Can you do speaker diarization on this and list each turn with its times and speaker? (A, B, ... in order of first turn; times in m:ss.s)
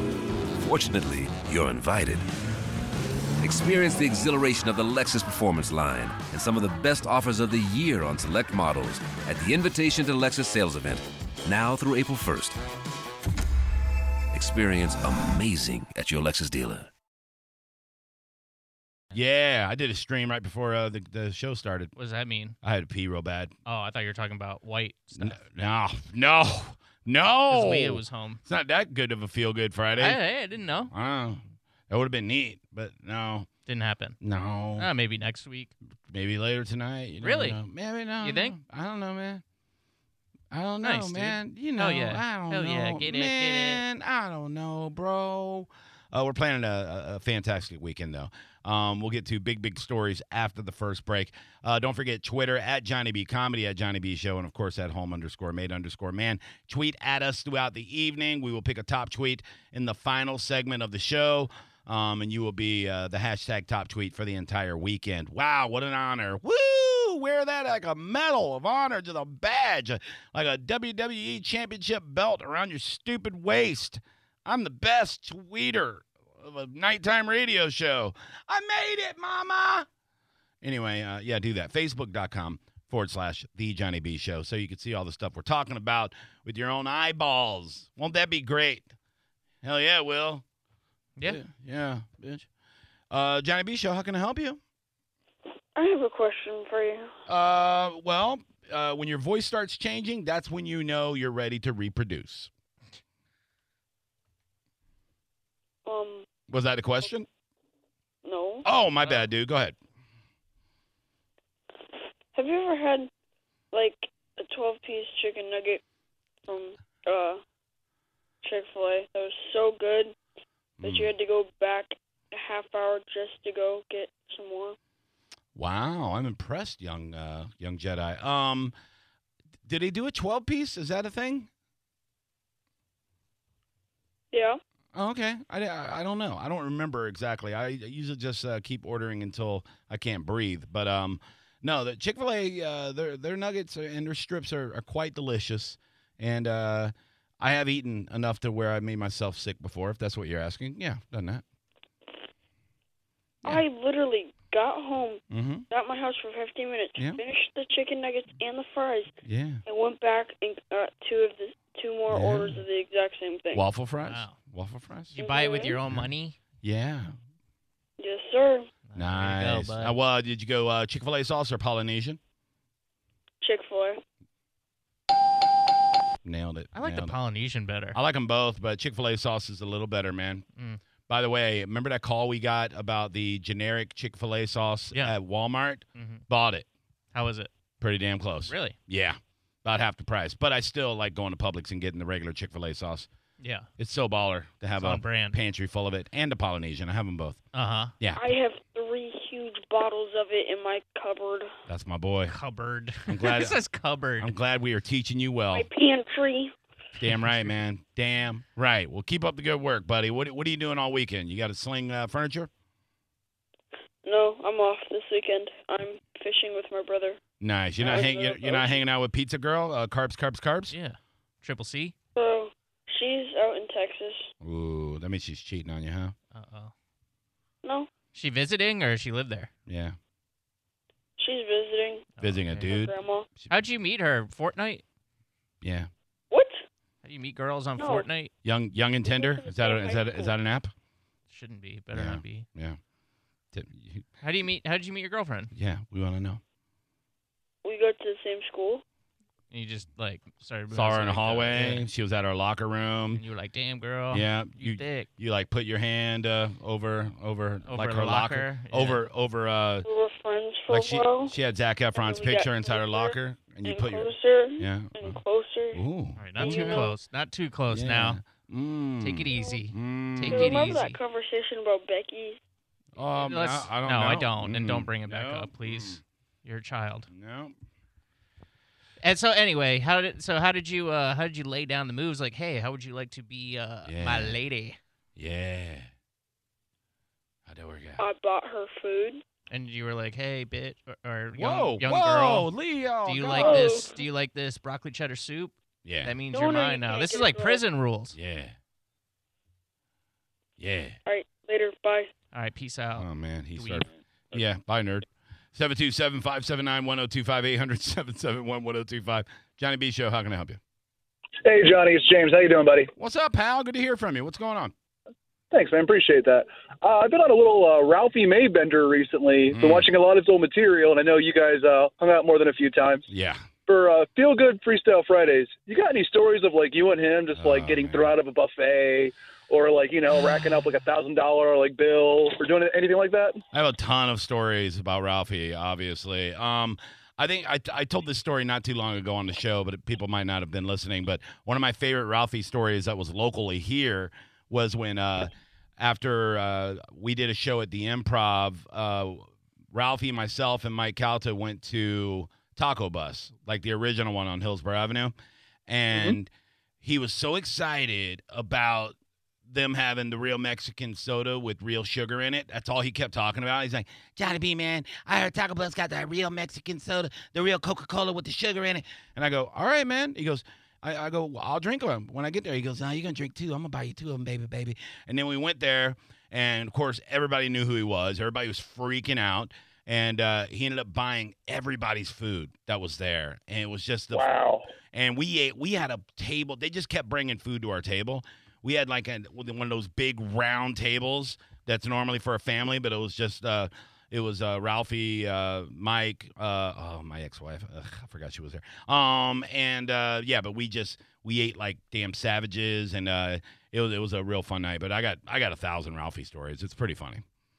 0:00.6-0:02.3 A
0:03.4-0:12.6 A
0:14.3-0:16.9 A
0:19.1-0:21.9 B
0:22.0-0:22.5 C
0:22.6-0:23.5 B
0:23.6-0:25.4 C
0:25.2-0:30.2 B
0:27.5-0:28.4 C
0:30.0-0:30.9 C
0:30.9-0:33.5 B
0:33.7-0:34.2 C
0:34.2-0:34.9 B
0:34.8-0:35.7 C
0:36.1-0:39.4 B
0:37.2-0:37.6 C
0:38.2-0:38.6 C
0:40.5-1:19.9 B
0:40.8-0:43.8 C
1:20.6-1:28.9 B
1:29.6-1:30.4 B
1:31.2-1:32.5 B
1:33.1-1:34.6 B
1:35.8-1:37.1 D
1:37.3-1:42.5 B
1:45.9-1:46.3 D
1:46.5-1:47.3 B
1:48.2-1:48.6 D
1:48.6-1:49.8 B
1:52.3-1:53.1 D
1:53.7-1:55.8 D
1:56.4-1:57.4 D
1:58.4-2:00.2 D
2:00.8-2:01.1 B
2:00.8-2:04.8 D
2:05.6-2:08.7 B
2:09.7-2:11.5 B
2:14.3-2:14.6 D
2:14.9-2:31.4 B
2:33.4-2:39.1 D
2:35.3-2:35.7 B
2:39.2-2:39.6 B
2:39.7-2:43.7 D
2:42.1-2:42.6 B
2:43.5-2:45.2 B
2:44.1-2:44.3 C
2:45.2-2:45.8 D
2:45.2-2:46.4 C
2:46.6-2:47.1 B
2:48.0-2:48.7 D
2:48.9-2:49.9 C
2:48.9-2:52.2 B
2:53.4-2:54.0 D
2:56.2-2:57.2 B
2:56.8-2:58.0 C
2:57.9-3:00.5 B
3:01.1-3:06.7 B
3:05.9-3:06.2 C
3:07.1-3:07.5 C
3:07.8-3:13.1 B
3:08.5-3:08.8 C
3:13.4-3:13.7 C
3:13.8-3:17.4 B
3:14.8-3:15.4 C
3:17.5-3:17.9 C
3:18.2-3:21.5 D
3:21.7-3:22.3 B
3:22.2-3:24.3 C
3:23.1-3:23.6 B
3:24.2-3:25.7 B
3:25.5-3:26.5 D
3:27.0-3:32.5 B
3:34.0-3:37.2 D
3:37.4-3:40.8 B
3:37.8-3:38.8 D
3:40.7-3:41.9 C
3:42.2-3:44.3 D
3:44.4-3:46.1 B
3:46.3-3:46.7 C
3:47.6-3:47.9 D
3:48.1-3:49.5 C
3:49.7-3:50.0 B
3:51.2-3:52.1 D
3:52.2-3:52.8 C
3:52.2-3:53.5 B
3:52.7-3:53.3 D
3:53.5-3:54.8 C
3:55.6-3:55.9 B
3:56.3-3:56.6 D
3:57.0-3:58.3 C
3:57.8-3:58.1 D
3:58.4-4:00.7 B
3:59.1-4:00.4 D
4:01.3-4:02.5 C
4:01.9-4:02.8 B
4:03.5-4:04.0 B
4:04.2-4:05.5 C
4:05.5-4:06.4 B
4:07.6-4:08.8 D
4:09.5-4:11.9 C
4:10.7-4:13.2 B
4:13.1-4:15.1 C
4:14.1-4:19.8 B
4:17.6-4:19.0 C
4:19.8-4:21.3 D
4:20.7-4:25.2 B
4:21.9-4:25.8 D
4:25.7-4:26.9 B
4:26.2-4:28.2 C
4:26.4-4:26.9 D
4:27.7-4:30.7 B
4:29.0-4:31.0 C
4:30.3-4:32.4 D
4:33.0-4:36.0 B
4:33.0-4:37.1 C
4:37.1-4:37.5 B
4:39.0-4:44.8 C
4:43.8-4:44.4 B
4:45.2-4:45.9 B
4:47.5-4:48.0 B
4:48.0-4:49.2 D
4:49.5-4:58.2 C
4:51.3-4:53.6 B
4:53.4-4:54.0 D
4:55.8-4:56.2 B
4:56.3-4:57.6 D
4:58.1-4:58.6 B
5:00.6-5:01.0 B
5:01.0-5:02.1 D
5:02.3-5:03.9 C
5:02.9-5:10.6 B
5:11.4-5:12.9 E
5:13.0-5:14.7 B
5:15.5-5:23.0 E
5:19.5-5:19.9 B
5:23.1-5:23.4 B
5:23.7-5:33.4 E
5:27.3-5:28.1 B
5:33.5-5:55.1 B
5:55.7-5:56.3 B
5:56.8-5:58.9 B
5:59.5-6:24.2 B
6:24.1-6:24.7 E
6:24.9-6:47.2 B